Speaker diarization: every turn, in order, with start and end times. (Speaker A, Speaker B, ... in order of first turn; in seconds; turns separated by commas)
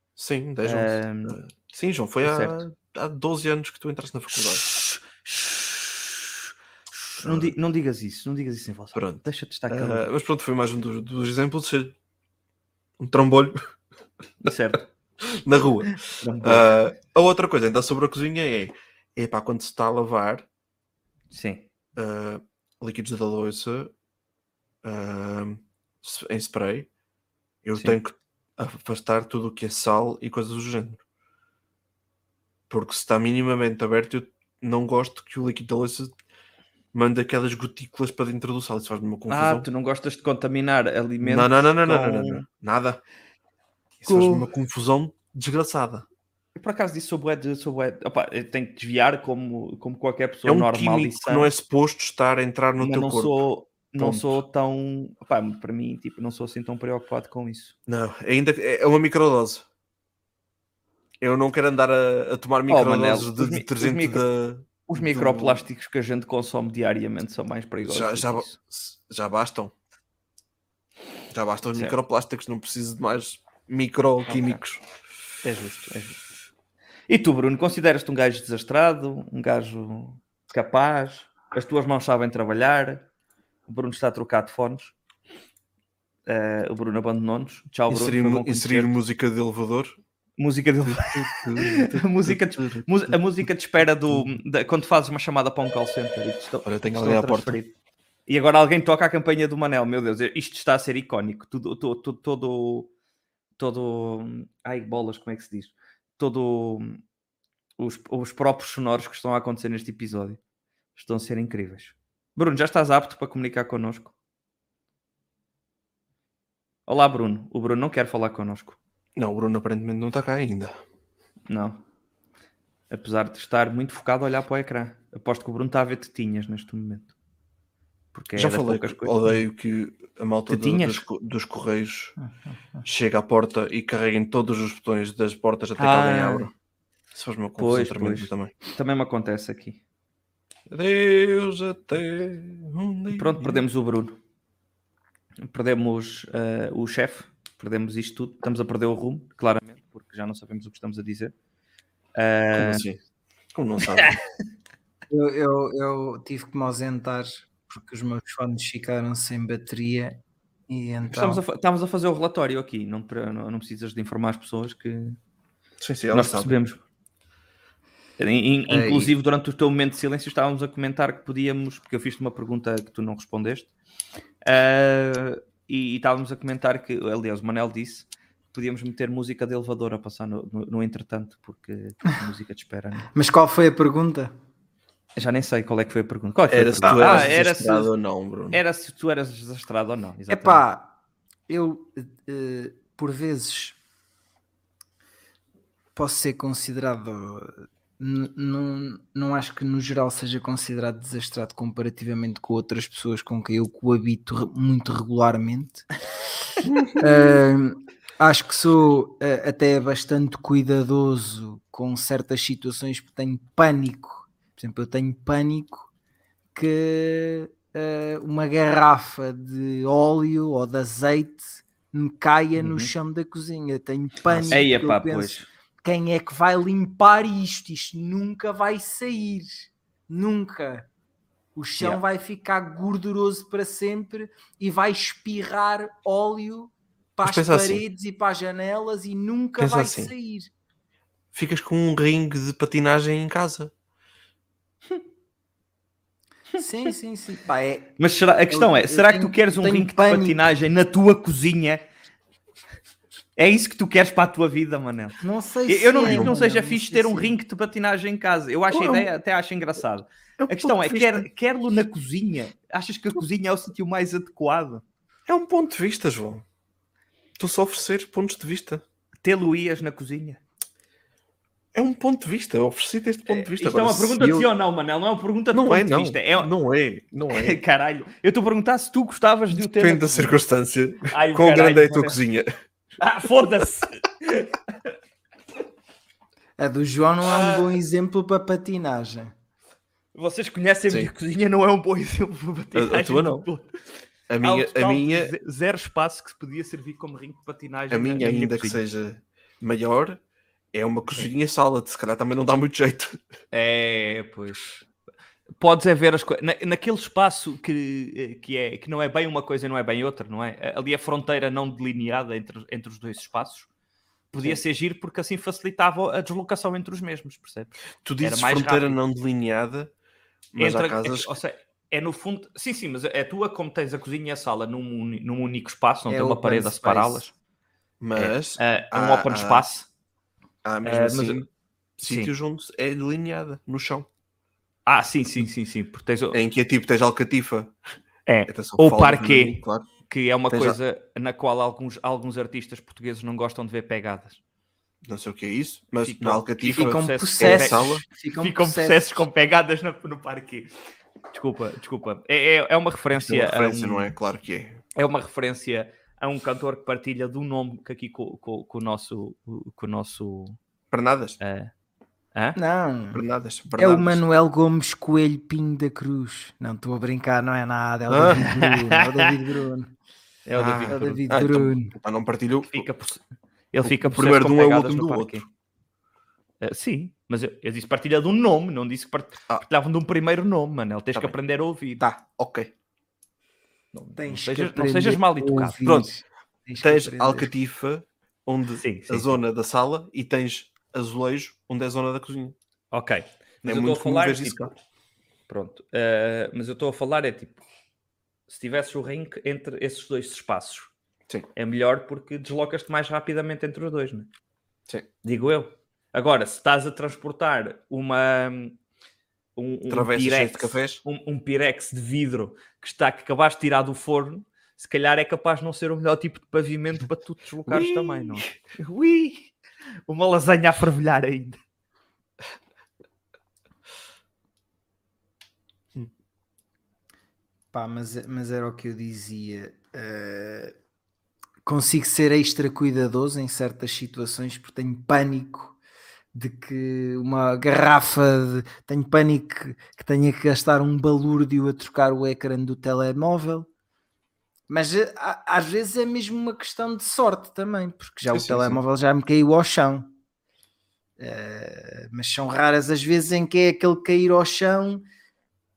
Speaker A: 0.2-4.6, Speaker B: 0.6-1.4, Speaker B: 2.2-2.6, Speaker B: 4.4-10.1, Speaker A: 7.2-7.5, Speaker A: 8.9-11.9, Speaker A: 13.0-13.6, Speaker B: 14.4-14.9, Speaker A: 15.2-20.4, Speaker B: 16.1-16.7, Speaker B: 21.3-21.6, Speaker A: 21.9-23.9, Speaker A: 24.8-26.9, Speaker A: 27.6-31.0, Speaker A: 32.7-36.1, Speaker A: 36.9-39.7, Speaker B: 39.3-42.4, Speaker A: 41.2-43.0, Speaker A: 44.0-46.0, Speaker B: 44.0-44.5, Speaker B: 46.5-51.5, Speaker A: 50.5-53.4, Speaker B: 52.8-57.7, Speaker A: 54.0-54.4, Speaker A: 57.9-59.6, Speaker A: 61.2-65.7, Speaker B: 62.7-64.2, Speaker B: 64.9-68.5, Speaker A: 67.8-69.7, Speaker A: 71.3-74.8, Speaker B: 74.3-74.6, Speaker B: 75.4-76.2, Speaker B: 77.1-83.0, Speaker B: 83.7-84.9, Speaker B: 86.2-88.9, Speaker A: 87.9-90.0, Speaker B: 90.4-97.7, Speaker A: 90.8-93.2, Speaker A: 94.1-94.4, Speaker A: 96.6-97.6, Speaker B: 98.3-102.9, Speaker B: 103.6-107.0, Speaker B: 107.8-110.4, Speaker B: 111.0-114.1, Speaker B: 116.9-118.8, Speaker A: 119.2-120.8, Speaker B: 121.5-121.8, Speaker B: 122.9-127.1, Speaker B: 128.1-129.2, Speaker A: 128.3-132.2, Speaker B: 130.5-131.0, Speaker C: 132.2-132.8, Speaker A: 132.8-136.5, Speaker B: 135.8-136.5, Speaker A: 137.1-138.5, Speaker B: 137.6-139.8, Speaker A: 140.7-143.6, Speaker B: 143.1-144.2, Speaker B: 145.4-151.3, Speaker B: 152.2-152.8, Speaker A: 152.5-153.0, Speaker A: 153.5-154.2, Speaker C: 155.1-161.4, Speaker B: 161.1-165.2, Speaker A: 165.8-166.6, Speaker B: 166.1-166.8, Speaker B: 168.2-173.7, Speaker C: 168.7-169.1, Speaker B: 174.4-183.1, Speaker C: 183.1-184.3, Speaker B: 185.2-187.9, Speaker A: 186.5-188.6, Speaker C: 186.8-187.3, Speaker B: 188.5-190.6, Speaker C: 190.3-190.9, Speaker C: 191.5-193.8, Speaker C: 195.9-205.9, Speaker C: 207.0-215.9, Speaker C: 216.5-230.9, Speaker B: 222.6-222.9, Speaker A: 224.3-224.7, Speaker B: 224.5-225.5, Speaker C: 231.5-240.5, Speaker A: 237.2-237.8, Speaker A: 239.6-240.1, Speaker A: 241.3-243.7, Speaker C: 246.6-247.9, Speaker B: 248.0-251.8, Speaker C: 248.5-250.4, Speaker B: 253.3-264.8, Speaker C: 255.2-257.3, Speaker A: 256.1-256.3, Speaker A: 258.7-259.1, Speaker A: 260.4-261.3, Speaker A: 265.3-266.4, Speaker A: 267.4-268.8, Speaker B: 269.2-270.4, Speaker A: 271.7-274.5, Speaker B: 273.3-276.5, Speaker A: 275.5-277.6, Speaker B: 277.3-280.4, Speaker A: 279.5-282.5, Speaker B: 281.1-282.2, Speaker B: 283.0-284.6, Speaker C: 286.6-289.3, Speaker B: 287.2-287.8, Speaker B: 290.1-293.7, Speaker A: 292.7-293.5, Speaker A: 294.3-295.3, Speaker B: 294.4-298.8, Speaker A: 297.9-300.2, Speaker A: 300.7-303.2, Speaker B: 303.5-304.8, Speaker B: 305.6-313.7, Speaker B: 314.3-319.0, Speaker A: 314.3-314.6, Speaker A: 318.0-319.9, Speaker A: 320.5-321.3, Speaker B: 320.6-327.3, Speaker C: 326.1-327.2, Speaker A: 328.0-329.6, Speaker B: 328.1-329.9, Speaker A: 330.6-334.1, Speaker B: 330.8-331.4, Speaker B: 332.0-332.3, Speaker B: 334.9-336.4, Speaker A: 336.3-337.7, Speaker B: 338.3-344.4, Speaker A: 338.5-339.9, Speaker A: 340.5-340.8, Speaker A: 345.0-348.0, Speaker B: 346.0-350.7, Speaker C: 346.7-349.2, Speaker B: 351.3-354.1, Speaker A: 353.1-354.8, Speaker B: 354.9-360.6, Speaker A: 360.9-361.4, Speaker B: 361.4-361.7, Speaker C: 362.6-363.2, Speaker A: 363.1-364.2, Speaker C: 363.8-369.9, Speaker A: 368.1-368.4, Speaker B: 368.4-369.3, Speaker B: 370.4-371.2, Speaker A: 370.6-372.9, Speaker C: 370.9-371.9, Speaker B: 372.6-375.4, Speaker A: 373.8-375.4, Speaker B: 376.6-382.0, Speaker A: 382.0-382.7, Speaker B: 383.9-385.8, Speaker C: 384.1-387.5, Speaker A: 385.8-386.1, Speaker A: 386.8-392.6, Speaker B: 388.8-389.4, Speaker B: 392.9-394.7, Speaker A: 393.6-394.7, Speaker B: 395.5-397.6, Speaker B: 398.5-400.9, Speaker B: 401.6-404.3, Speaker B: 405.2-408.8, Speaker B: 409.6-419.5, Speaker A: 409.9-411.0, Speaker A: 417.7-418.4, Speaker B: 420.1-421.6, Speaker C: 427.7-430.7, Speaker C: 431.6-435.8, Speaker C: 436.3-443.7, Speaker C: 444.7-450.1, Speaker A: 448.3-448.8, Speaker C: 451.2-455.0